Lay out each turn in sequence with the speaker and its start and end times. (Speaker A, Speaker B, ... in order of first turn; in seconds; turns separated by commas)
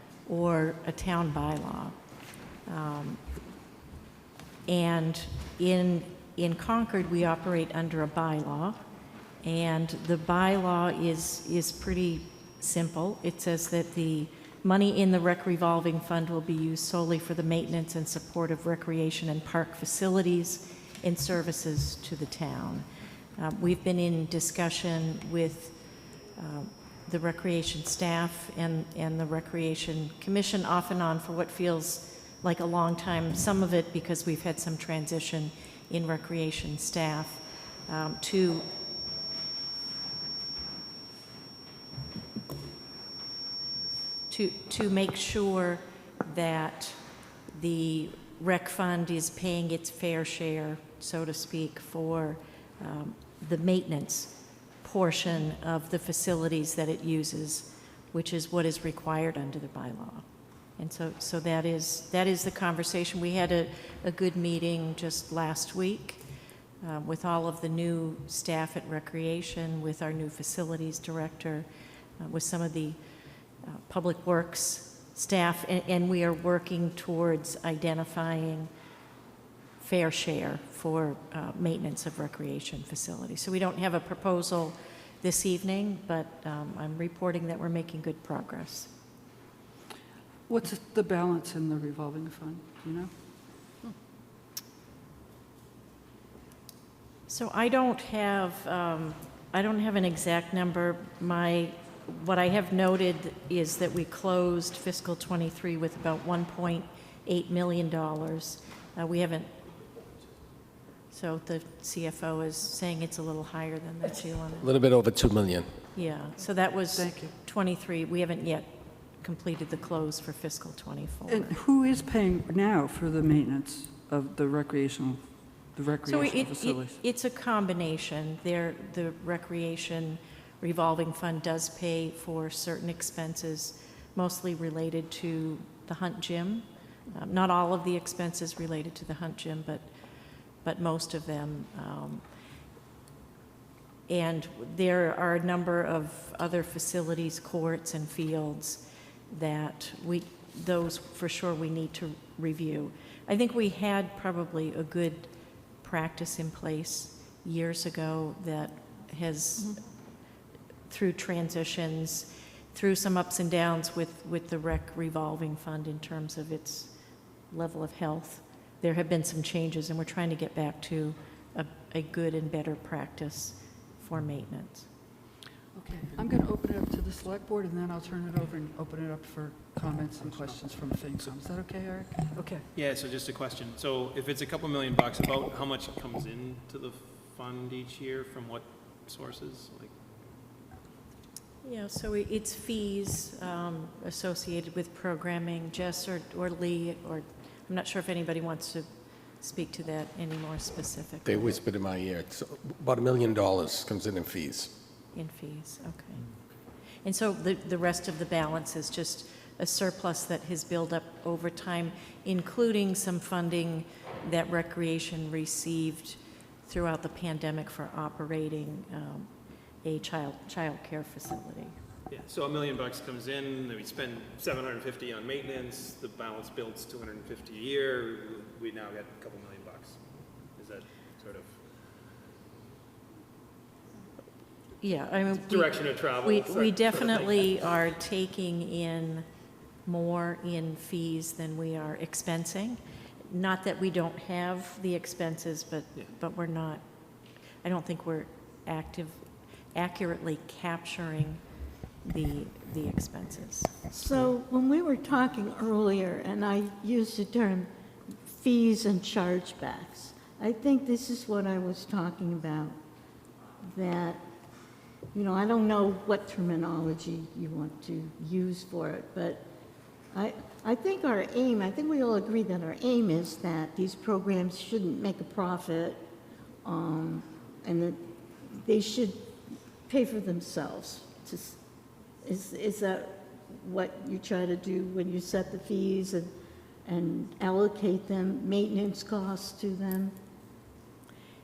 Speaker A: 0.2-1.9, Speaker A: 2.6-3.2, Speaker A: 4.7-8.8, Speaker A: 9.4-38.6, Speaker A: 44.3-47.0, Speaker A: 47.5-60.2, Speaker A: 60.8-66.2, Speaker A: 66.8-71.7, Speaker A: 72.2-73.0, Speaker A: 73.6-78.7, Speaker A: 79.8-88.9, Speaker B: 90.5-93.1, Speaker A: 97.3-109.5, Speaker A: 111.1-114.7, Speaker C: 114.6-115.8, Speaker A: 115.9-121.5, Speaker B: 116.9-117.3, Speaker B: 121.3-127.0, Speaker A: 126.0-139.8, Speaker A: 140.6-142.2, Speaker A: 144.1-155.3, Speaker A: 155.8-159.8, Speaker A: 160.9-166.9, Speaker A: 167.5-174.9, Speaker B: 175.7-182.6, Speaker D: 182.7-189.9, Speaker A: 191.6-201.5, Speaker C: 201.2-204.7, Speaker A: 205.1-206.2, Speaker A: 207.0-219.3, Speaker A: 219.8-221.8, Speaker D: 222.1-230.0, Speaker D: 230.6-231.6, Speaker A: 234.8-239.2, Speaker D: 235.3-237.5, Speaker A: 239.8-246.8, Speaker A: 247.6-249.2, Speaker A: 249.7-251.4, Speaker A: 252.0-253.9, Speaker E: 253.9-257.7, Speaker E: 258.3-262.7, Speaker E: 263.6-264.2, Speaker E: 265.1-269.4, Speaker E: 270.1-276.0, Speaker E: 276.6-279.3, Speaker E: 279.9-281.6, Speaker E: 282.2-286.3, Speaker E: 286.8-290.1